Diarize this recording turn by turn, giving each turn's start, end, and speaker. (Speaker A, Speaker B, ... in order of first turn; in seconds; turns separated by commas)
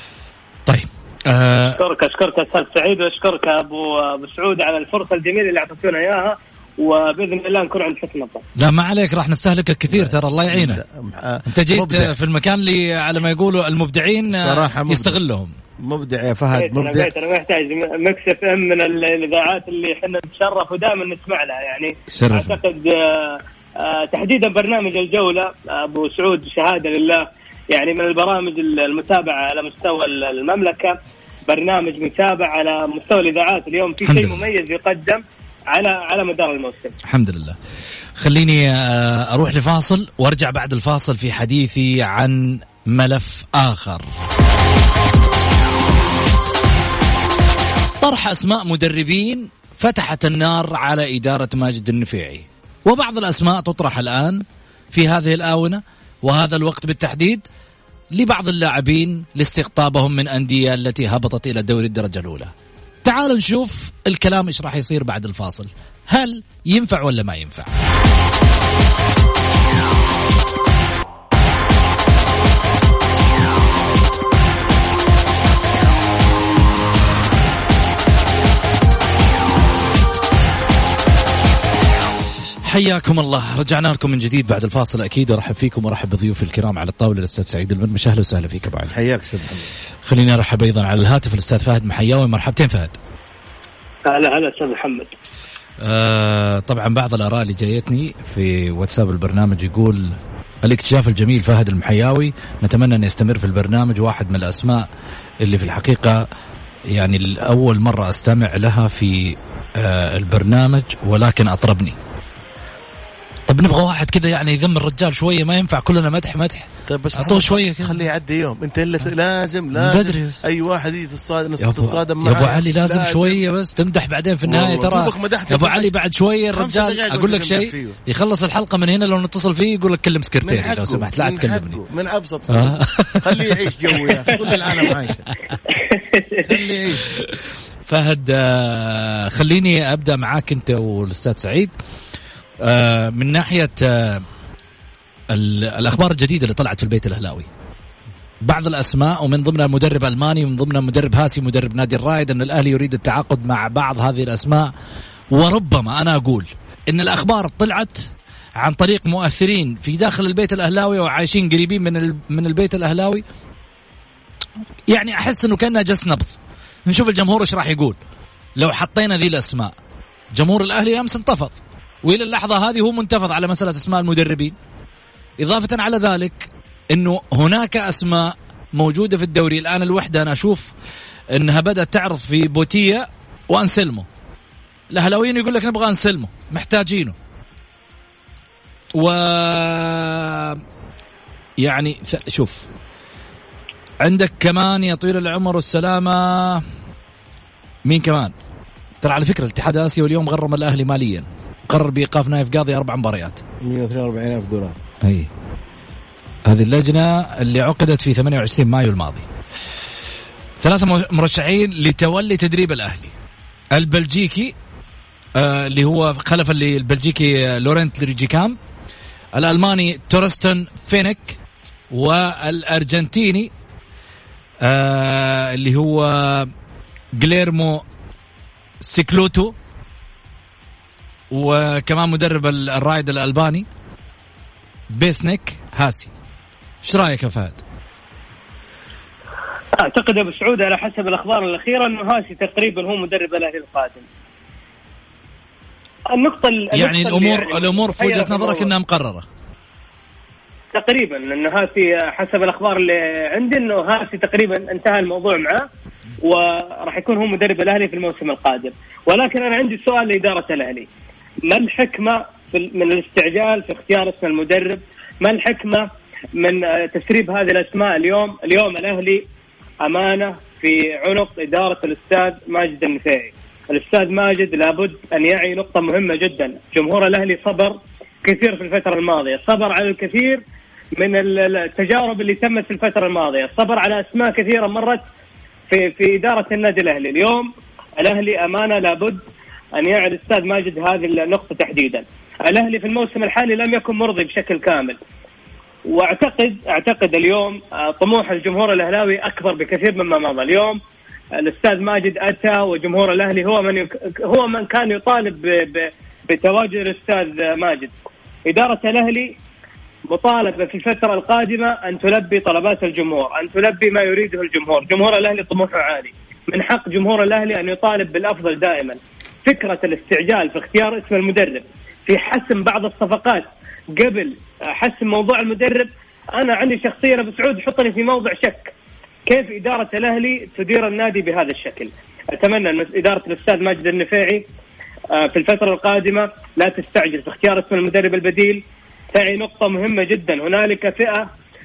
Speaker A: 0.7-1.8, Speaker B: 1.8-8.4, Speaker A: 8.6-10.8, Speaker C: 9.9-12.1, Speaker A: 11.5-15.5, Speaker C: 14.3-15.2, Speaker C: 15.8-17.1, Speaker B: 16.6-31.0, Speaker A: 22.1-22.6, Speaker B: 31.5-37.0, Speaker A: 34.0-34.5, Speaker A: 37.1-37.6, Speaker A: 38.2-44.1, Speaker A: 48.0-57.4, Speaker A: 58.1-62.5, Speaker A: 63.0-67.7, Speaker A: 82.6-89.0, Speaker C: 88.9-89.7, Speaker A: 90.0-93.0, Speaker B: 94.1-95.1, Speaker A: 95.8-104.9, Speaker A: 105.4-106.2, Speaker A: 106.9-112.0, Speaker A: 113.5-117.9, Speaker C: 116.9-123.4, Speaker A: 119.8-120.4, Speaker A: 121.6-131.8, Speaker C: 124.5-125.9, Speaker C: 126.5-128.0, Speaker C: 130.4-135.3, Speaker A: 132.5-134.4, Speaker C: 136.5-137.1, Speaker A: 137.9-141.7, Speaker A: 142.6-144.2, Speaker A: 145.3-147.5, Speaker A: 148.4-154.7, Speaker A: 155.3-163.2, Speaker A: 164.9-168.0, Speaker A: 168.6-169.8, Speaker A: 170.3-174.6, Speaker A: 175.4-180.7, Speaker A: 181.3-184.1, Speaker A: 184.9-187.2, Speaker A: 188.9-190.6, Speaker A: 191.6-192.7, Speaker A: 194.0-196.6, Speaker A: 197.8-198.3, Speaker A: 199.0-203.4, Speaker C: 203.6-204.8, Speaker A: 205.0-205.3, Speaker A: 206.5-209.3, Speaker A: 210.6-213.1, Speaker A: 213.7-214.5, Speaker A: 215.3-218.6, Speaker A: 219.3-221.4, Speaker A: 221.9-223.5, Speaker A: 224.6-226.5, Speaker A: 227.2-227.8, Speaker A: 228.8-229.5, Speaker A: 231.3-233.7, Speaker A: 234.9-236.1, Speaker A: 236.8-237.6, Speaker B: 239.8-244.0, Speaker B: 246.1-248.7, Speaker A: 246.7-249.2, Speaker B: 250.7-255.7, Speaker B: 256.2-260.9, Speaker B: 261.5-269.2, Speaker B: 269.8-280.4, Speaker B: 281.0-285.0, Speaker B: 285.7-289.2, Speaker B: 289.8-295.0, Speaker B: 295.9-300.8, Speaker B: 301.4-307.9, Speaker B: 308.5-309.4, Speaker B: 310.1-328.7, Speaker B: 329.3-334.4, Speaker B: 335.1-338.6, Speaker B: 339.1-341.3